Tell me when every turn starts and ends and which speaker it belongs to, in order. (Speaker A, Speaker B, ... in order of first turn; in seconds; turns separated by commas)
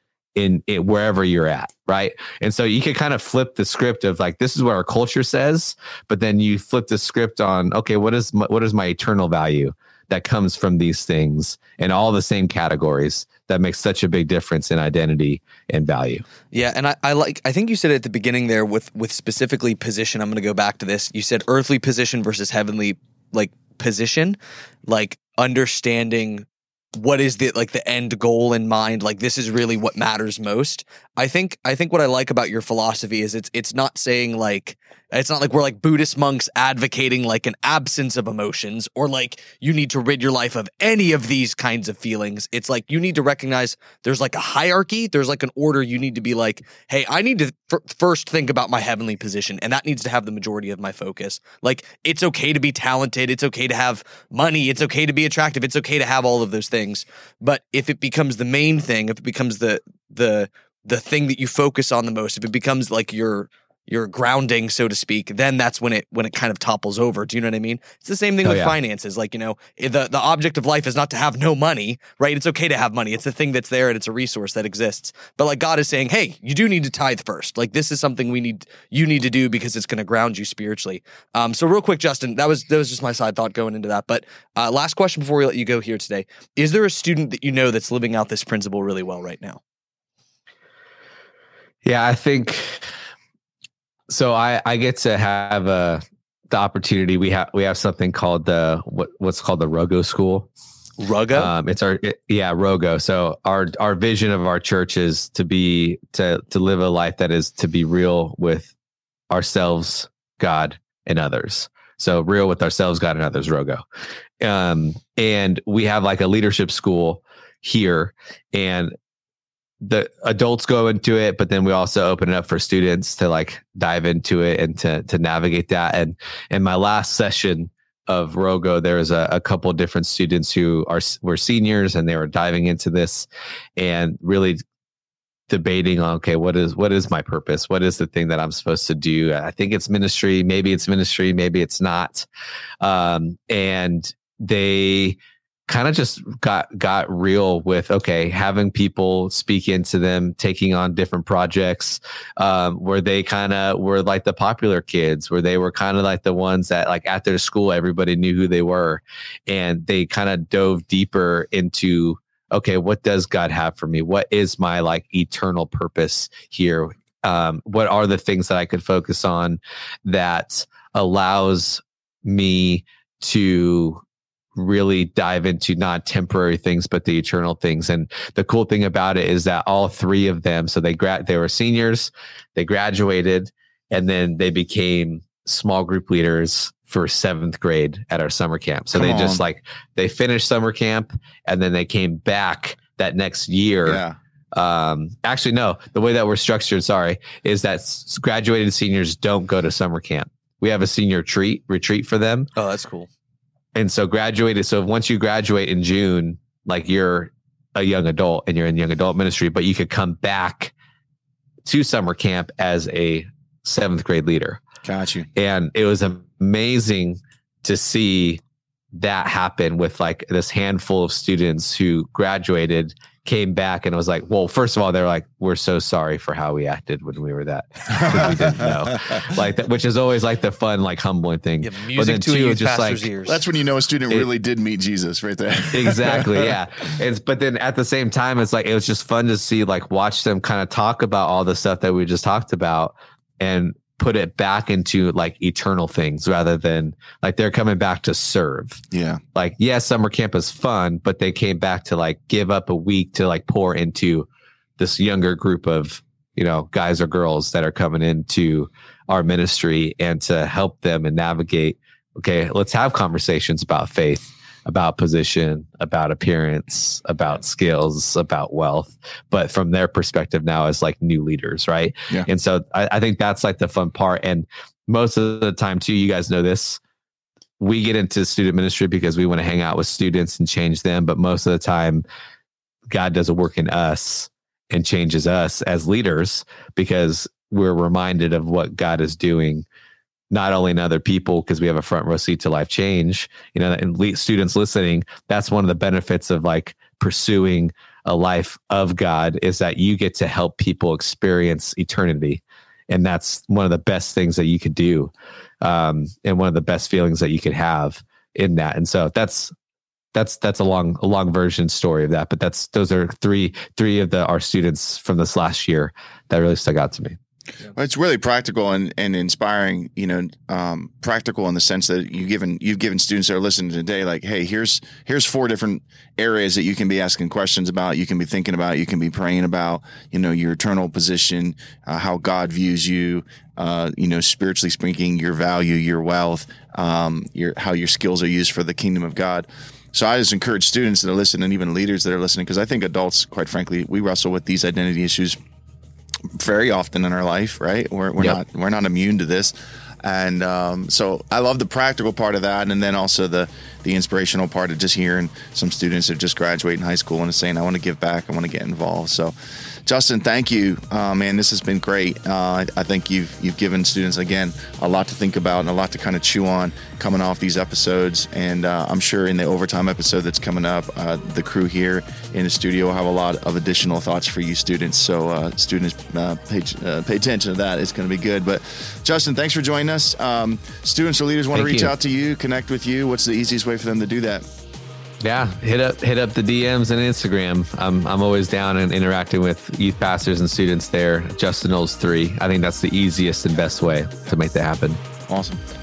Speaker A: 0.3-16.2, Speaker B: 16.5-89.6, Speaker A: 68.4-68.8, Speaker A: 91.8-92.8, Speaker A: 94.1-100.5, Speaker B: 101.0-101.5, Speaker A: 101.3-108.7, Speaker A: 109.3-113.8, Speaker A: 114.4-118.9, Speaker A: 119.8-134.6, Speaker A: 135.5-142.2, Speaker A: 142.8-174.0, Speaker A: 174.6-194.0, Speaker C: 188.9-189.4, Speaker C: 193.8-194.2, Speaker A: 194.5-202.5, Speaker B: 202.6-203.1, Speaker A: 203.7-210.7, Speaker A: 211.7-214.6, Speaker C: 214.8-215.3, Speaker A: 215.3-218.4, Speaker A: 218.9-233.1, Speaker C: 227.9-229.2, Speaker B: 231.6-233.4, Speaker C: 233.2-236.5, Speaker A: 235.7-248.8, Speaker C: 248.9-249.2, Speaker A: 249.3-276.8, Speaker A: 277.6-282.0, Speaker A: 282.9-289.6, Speaker A: 290.3-309.5, Speaker A: 310.1-317.2, Speaker C: 317.7-345.4, Speaker C: 346.3-359.3, Speaker C: 359.8-384.4, Speaker A: 381.5-381.9, Speaker A: 385.2-395.0, Speaker C: 395.3-395.6